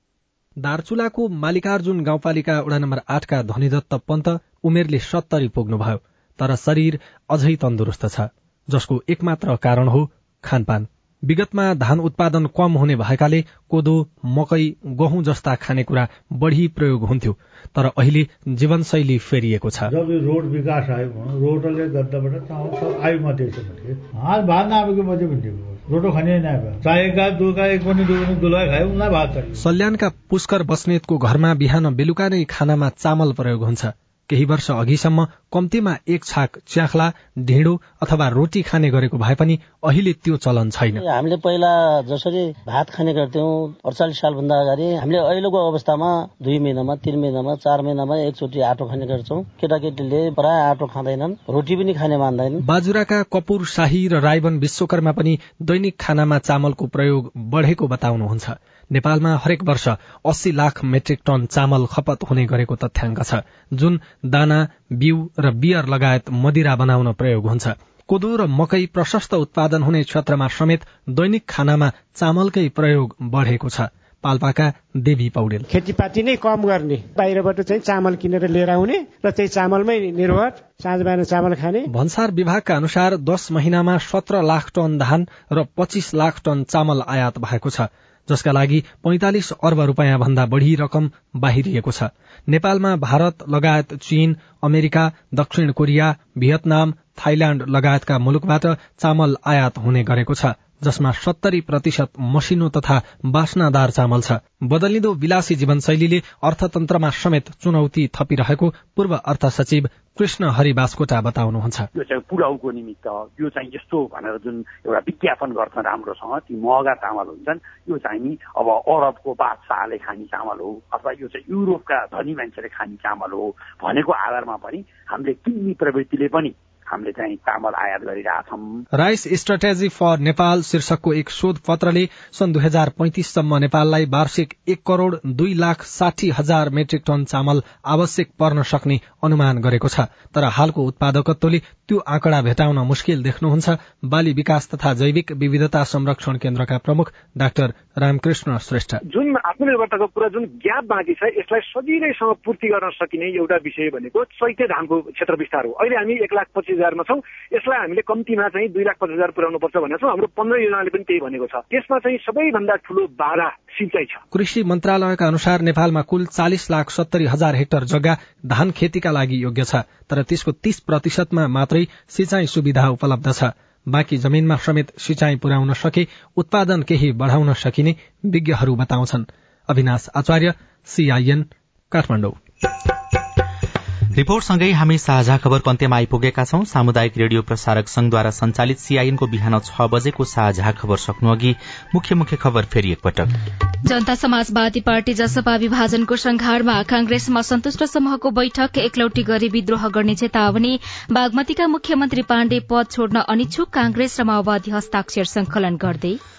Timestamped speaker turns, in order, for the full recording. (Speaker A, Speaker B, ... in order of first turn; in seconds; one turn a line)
Speaker A: 0.6-19.9
Speaker B: 19.9-29.6
Speaker A: 29.6-41.0
Speaker C: 41.0-52.6
Speaker A: 52.6-75.7
Speaker D: 75.7-81.9
Speaker A: 81.9-111.9
Speaker E: 112.0-126.4
Speaker E: 127.0-128.6
Speaker A: 128.9-149.0
Speaker F: 149.1-164.2
Speaker A: 164.3-182.4
Speaker G: 184.1-193.3
Speaker H: 193.8-206.2